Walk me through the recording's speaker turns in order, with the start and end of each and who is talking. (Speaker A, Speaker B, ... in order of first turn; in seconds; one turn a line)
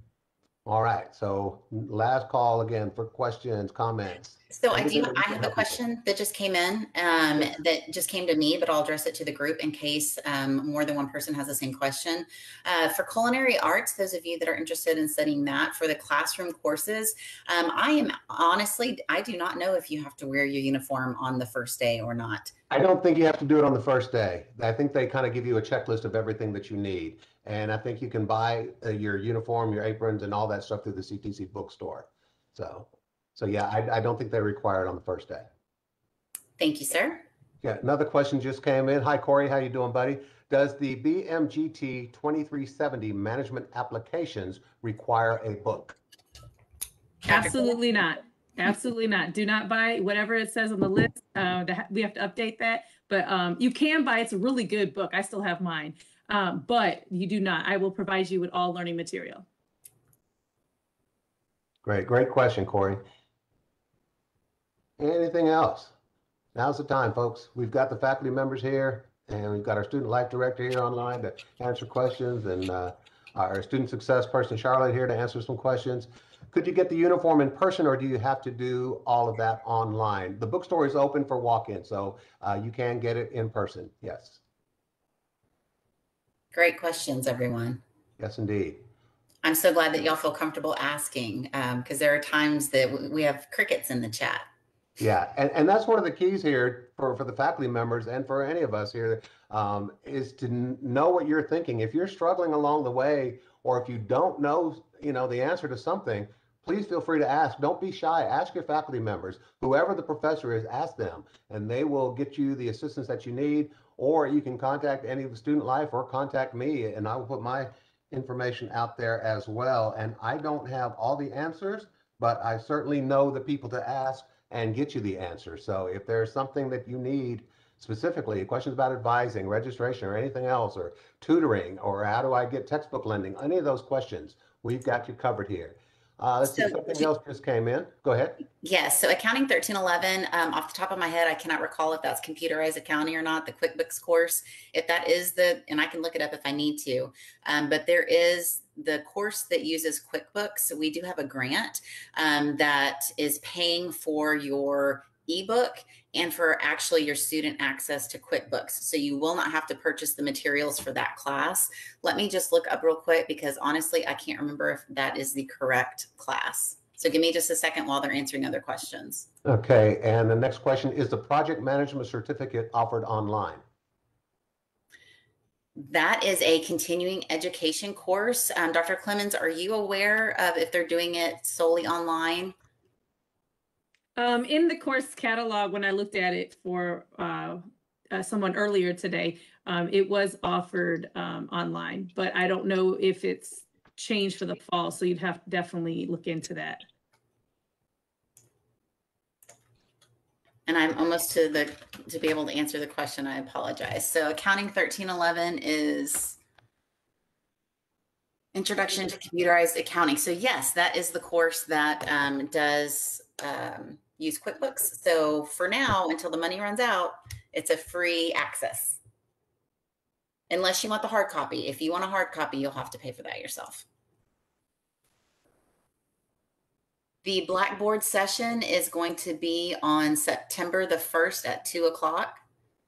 Speaker A: 0.7-5.8
Speaker B: 4.5-22.5
Speaker A: 22.7-35.5
Speaker B: 36.6-37.2
Speaker A: 37.6-46.0
Speaker B: 47.3-47.5
Speaker C: 47.3-59.5
Speaker A: 61.9-63.0
Speaker A: 65.0-65.9
Speaker A: 66.5-84.4
Speaker B: 86.5-87.8
Speaker A: 88.2-88.8
Speaker B: 89.4-94.5
Speaker A: 95.0-138.4
Speaker B: 136.5-137.0
Speaker B: 138.6-169.3
Speaker A: 169.4-173.6
Speaker B: 175.8-182.5
Speaker C: 184.2-196.8
Speaker B: 200.7-206.4
Speaker B: 208.5-219.0
Speaker B: 220.5-223.8
Speaker B: 227.2-232.4